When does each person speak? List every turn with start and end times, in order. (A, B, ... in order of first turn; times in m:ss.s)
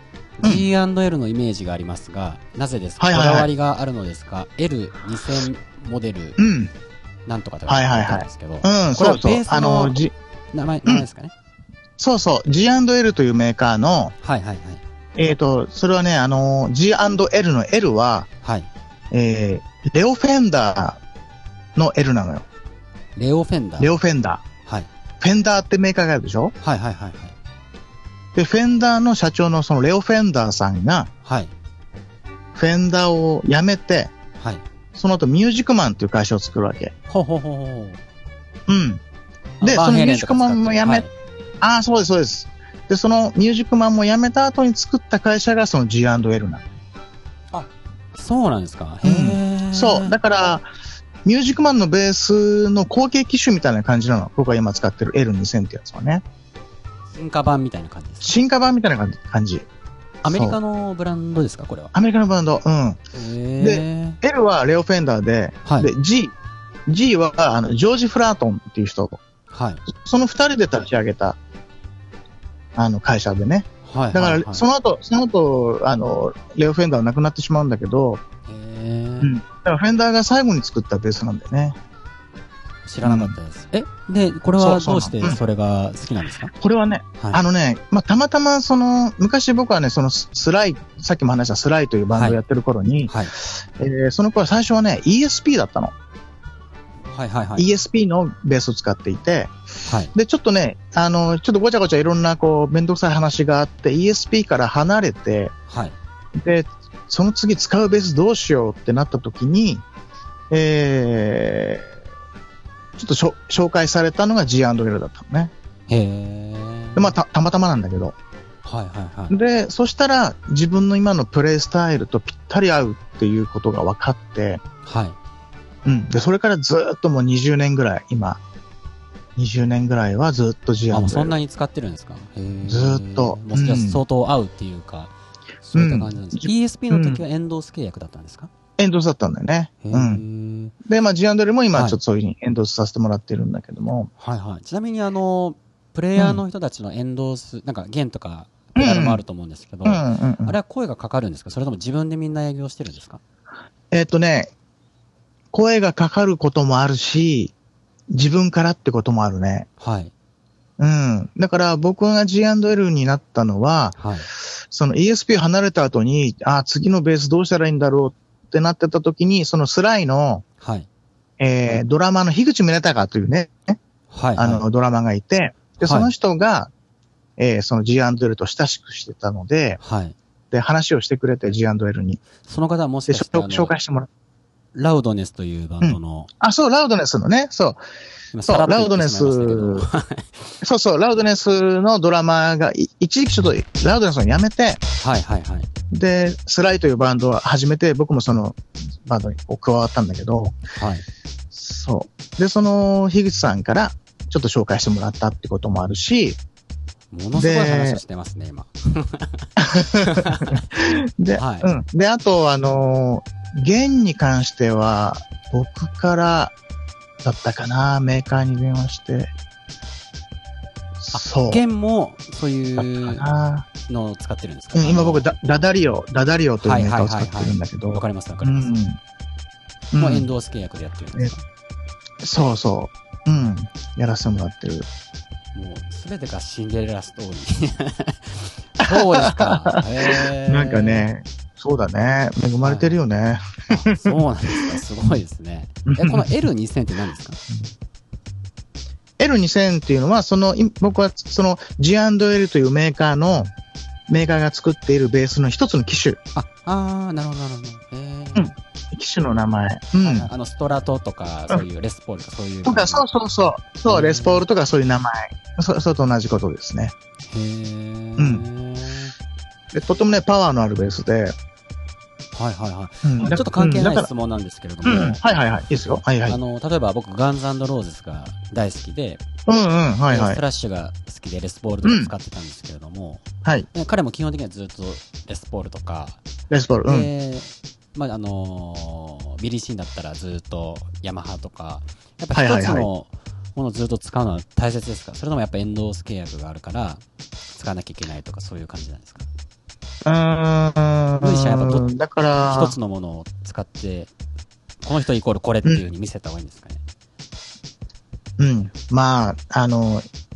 0:00.4-0:06.4 A
0:03.0-0:03.5 B
0:06.4-0:06.7 B
0:07.2-0:10.0 A
0:07.7-0:10.1 B
0:10.5-0:11.3 A
0:12.0-0:14.1 B
0:14.2-0:14.8 A
0:15.2-0:18.3 B
0:18.4-0:18.7 A
0:19.1-0:21.0 B
0:21.8-0:22.4 B
0:23.2-0:23.9 A
0:23.8-0:24.4 B
0:25.2-0:26.5 B
0:26.6-0:27.3 A
0:28.3-0:31.1 B
0:31.2-0:31.5 A
0:32.5-0:34.1 B
0:34.9-0:36.9 B
0:37.1-0:38.0 A
0:38.7-0:39.0 B
0:39.6-0:41.1 A
0:39.6-0:41.0 B
0:41.6-0:46.7 B
0:47.5-0:50.2 A
0:49.0-0:50.6 B
0:51.2-0:56.2 B
0:57.1-0:58.3 A
0:58.2-0:59.6 B
1:00.2-1:00.6 B
1:00.2-1:01.9 A
1:01.9-1:03.0 B
1:03.1-1:04.2 A
1:03.6-1:06.3 B
1:05.6-1:05.9 A
1:06.9-1:09.2 B
1:09.5-1:09.8 A
1:09.9-1:11.4 B
1:12.8-1:18.2 B
1:13.8-1:14.6 A
1:18.5-1:19.3 A
1:19.2-1:21.8 B
1:22.9-1:26.5 A
1:23.0-1:23.4 B
1:24.6-1:25.4 B
1:26.6-1:35.9 B
1:32.1-1:32.4 A
1:37.1-1:37.7 A
1:37.6-1:39.5 B
1:39.8-1:40.1 A
1:40.1-1:45.5 B
1:45.7-1:45.9 A
1:46.3-1:49.8 B
1:50.5-1:51.9 B
1:53.0-1:55.5 B
1:55.9-1:57.2 A
1:57.0-1:58.1 B
1:58.6-1:59.3 A
1:59.3-2:04.6 B
2:04.8-2:05.2 A
2:05.8-2:08.4 B
2:09.4-2:11.4 B
2:10.9-2:18.5 A
2:12.6-2:14.0 B
2:15.7-2:17.2 B
2:18.8-2:20.2 B
2:19.8-2:20.7 A
2:20.8-2:24.1 B
2:21.7-2:22.0 A
2:24.2-2:33.2 A
2:26.2-2:26.4 B
2:28.8-2:29.2 B
2:29.8-2:30.6 B
2:33.9-2:34.5 B
2:35.5-2:37.5 B
2:38.1-2:39.7 B
2:39.8-2:40.1 A
2:40.8-2:43.9 B
2:44.0-2:44.3 A
2:44.7-2:50.4 B
2:50.6-2:50.9 A
2:51.4-2:53.8 B
2:54.1-2:54.6 A
2:54.4-2:56.7 B
2:55.8-2:56.1 A
2:57.4-2:59.8 B
2:59.8-3:00.2 A
3:00.5-3:02.2 B
3:02.4-3:03.7 A
3:03.1-3:04.1 B
3:04.7-3:06.3 A
3:05.8-3:07.8 B
3:08.3-3:10.6 A
3:08.4-3:09.8 B
3:10.6-3:14.8 B
3:15.0-3:15.7 A
3:15.9-3:20.5 B
3:20.8-3:21.0 A
3:21.5-3:26.4 B
3:27.1-3:30.7 A
3:27.4-3:28.0 B
3:29.6-3:36.5 B
3:31.4-3:31.7 A
3:37.2-3:39.3 B
3:41.0-3:41.6 B
3:41.1-3:43.2 A
3:42.8-3:43.6 B
3:43.9-3:45.3 A
3:44.7-3:49.0 B
3:46.6-3:48.7 A
3:49.9-3:50.3 B
3:50.0-3:51.4 A
3:52.2-3:54.9 B
3:55.5-4:01.1 A
3:58.8-4:04.2 B
4:02.6-4:03.0 A
4:03.7-4:07.4 A
4:05.8-4:06.4 B
4:09.2-4:13.5 B
4:14.1-4:16.2 B
4:16.3-4:18.5 A
4:18.3-4:20.3 B
4:20.0-4:23.1 A
4:22.6-4:26.9 B
4:23.9-4:24.4 A
4:27.3-4:29.1 A
4:28.2-4:28.4 B
4:29.7-4:31.3 B
4:32.3-4:35.2 A
4:33.0-4:34.1 B
4:34.8-4:36.4 B
4:36.2-4:39.2 A
4:39.5-4:40.4 B
4:40.1-4:46.2 A
4:41.8-4:42.1 B
4:46.5-4:47.1 B
4:46.8-4:57.0 A
4:52.3-4:52.9 B
4:57.5-4:59.2 A
5:00.0-5:02.7 B
5:01.2-5:01.9 A
5:02.4-5:04.1 A
5:04.8-5:06.8 A
5:08.4-5:10.0 B